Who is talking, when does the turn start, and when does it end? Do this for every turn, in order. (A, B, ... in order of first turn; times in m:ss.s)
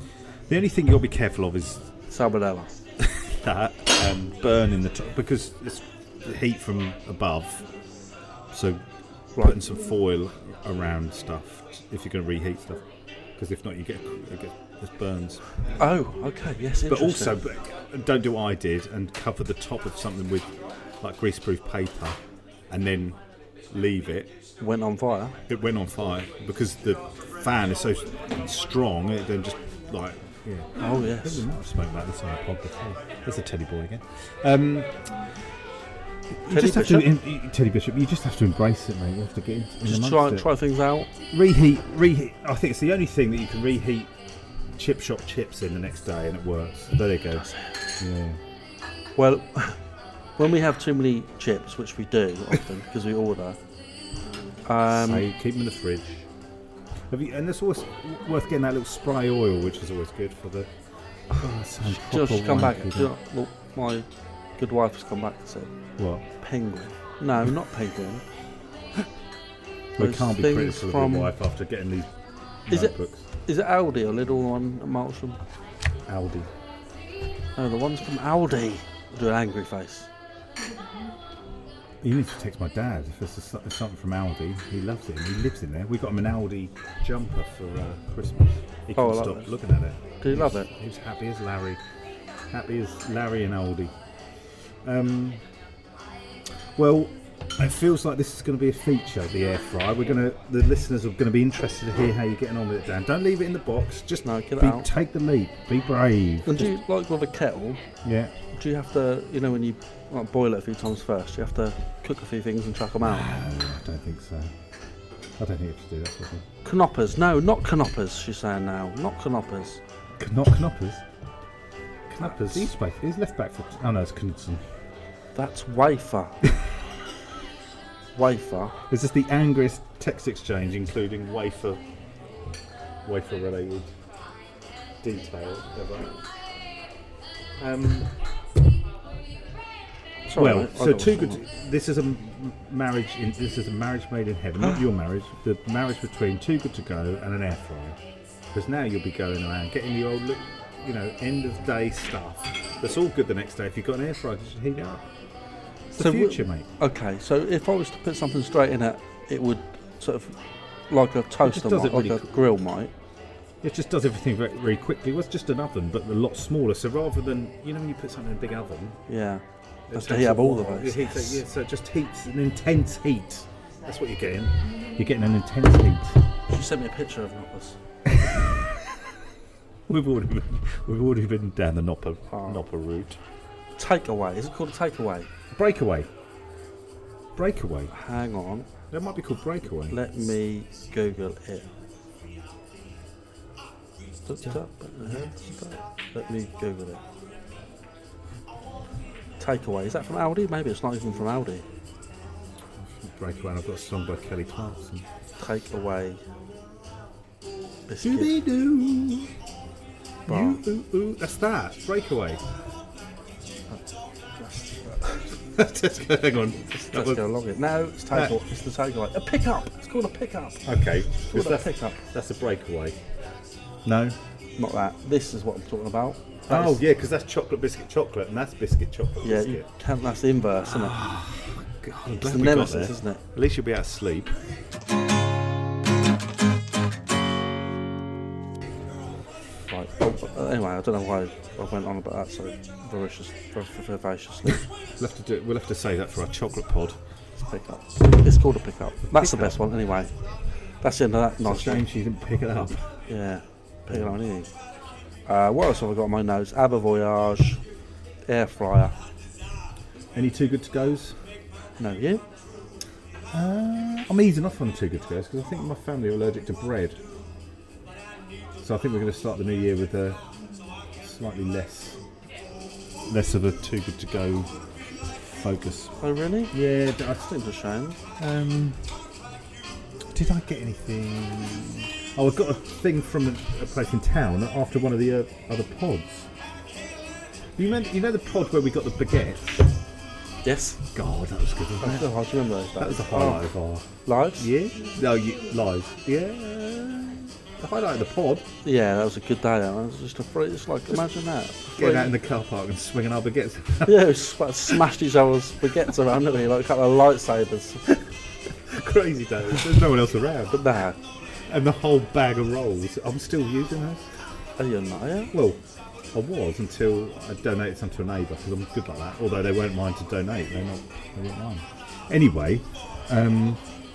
0:00.5-0:01.9 A
0:02.1-0:02.8 B
0:03.0-0:07.7 A
0:08.5-0:08.8 A
0:09.4-0:12.9 A
0:13.4-0:15.4 A
0:15.8-0:17.4 B
0:16.9-0:22.2 A
0:22.7-0:24.4 A
0:24.6-0:25.4 B
0:25.5-0:35.2 A
0:30.8-0:31.5 B
0:36.4-0:40.5 A
0:36.5-0:37.1 B
0:39.8-0:41.1 B
0:41.3-0:44.1 A
0:44.7-0:47.5 A
0:47.4-0:47.8 B
0:48.0-0:48.4 A
0:49.2-0:49.8 B
0:50.4-0:53.6 B
0:54.6-0:55.3 B
0:54.9-0:56.3 A
0:57.1-1:00.7 A
1:01.3-1:03.1 A
1:01.8-1:04.1 B
1:04.6-1:05.7 B
1:06.0-1:06.3 A
1:06.3-1:08.2 B
1:10.0-1:12.1 A
1:10.0-1:11.3 B
1:12.7-1:13.3 A
1:12.7-1:15.4 B
1:16.1-1:16.5 A
1:17.6-1:20.1 B
1:22.0-1:31.8 A
1:29.0-1:29.5 B
1:30.2-1:30.7 B
1:32.5-1:35.4 A
1:36.8-1:46.7 A
1:44.2-1:44.9 B
1:46.5-1:47.8 B
1:48.0-1:48.3 A
1:48.5-1:53.3 B
1:53.0-1:54.5 A
1:55.4-1:56.5 A
1:56.6-1:59.8 B
2:00.2-2:01.0 A
2:02.1-2:04.6 A
2:02.2-2:02.7 B
2:05.4-2:06.4 B
2:08.2-2:08.8 B
2:08.9-2:11.8 A
2:13.0-2:13.9 A
2:15.0-2:16.2 A
2:17.6-2:18.1 A
2:20.3-2:21.4 B
2:20.3-2:28.0 A
2:28.5-2:35.1 A
2:35.9-2:36.7 A
2:36.0-2:40.4 B
2:40.9-2:42.9 B
2:41.4-2:42.3 A
2:43.6-2:49.0 A
2:49.1-2:51.4 B
2:49.9-2:56.2 A
2:56.5-2:57.8 B
2:58.1-2:58.9 A
2:59.9-3:03.2 A
3:02.3-3:02.6 B
3:03.8-3:05.3 B
3:05.5-3:06.1 A
3:07.4-3:07.9 A
3:07.9-3:08.7 B
3:08.9-3:10.0 A
3:09.9-3:11.7 B
3:14.3-3:17.0 B
3:19.4-3:21.7 B
3:22.8-3:25.0 A
3:25.4-3:26.2 B
3:27.9-3:28.4 B
3:28.0-3:29.3 A
3:30.3-3:30.6 B
3:30.3-3:32.4 A
3:34.3-3:35.4 B
3:35.5-3:37.2 A
3:36.8-3:42.0 B
3:38.1-3:38.4 A
3:40.6-3:43.0 A
3:43.8-3:44.2 A
3:44.6-3:46.8 B
3:46.5-3:49.7 A
3:49.2-3:51.0 B
3:50.7-3:54.4 A
3:52.2-3:53.2 B
3:59.7-4:04.7 B
4:05.0-4:07.0 A
4:07.4-4:10.2 B
4:09.1-4:09.6 A
4:10.7-4:11.8 B
4:11.4-4:13.0 A
4:13.1-4:14.5 B
4:13.9-4:14.2 A
4:15.3-4:17.6 B
4:18.3-4:19.0 B
4:20.1-4:21.2 A
4:21.8-4:22.2 B
4:23.3-4:27.0 A
4:28.6-4:30.2 A
4:31.0-4:32.0 A
4:33.1-4:34.5 A
4:35.1-4:35.9 A
4:36.0-4:36.5 B
4:36.5-4:37.3 A
4:37.2-4:38.0 B
4:38.2-4:39.0 A
4:40.1-4:46.3 A
4:47.6-4:49.7 A
4:50.4-4:50.8 B
4:50.9-4:58.5 A
4:51.8-4:53.5 B
4:54.0-4:54.5 B
4:58.6-5:02.1 B
5:01.8-5:04.2 A
5:03.8-5:07.9 B
5:07.9-5:10.6 A
5:10.5-5:11.0 B
5:11.3-5:14.1 A
5:14.6-5:15.3 B
5:15.3-5:15.6 A
5:16.1-5:23.6 A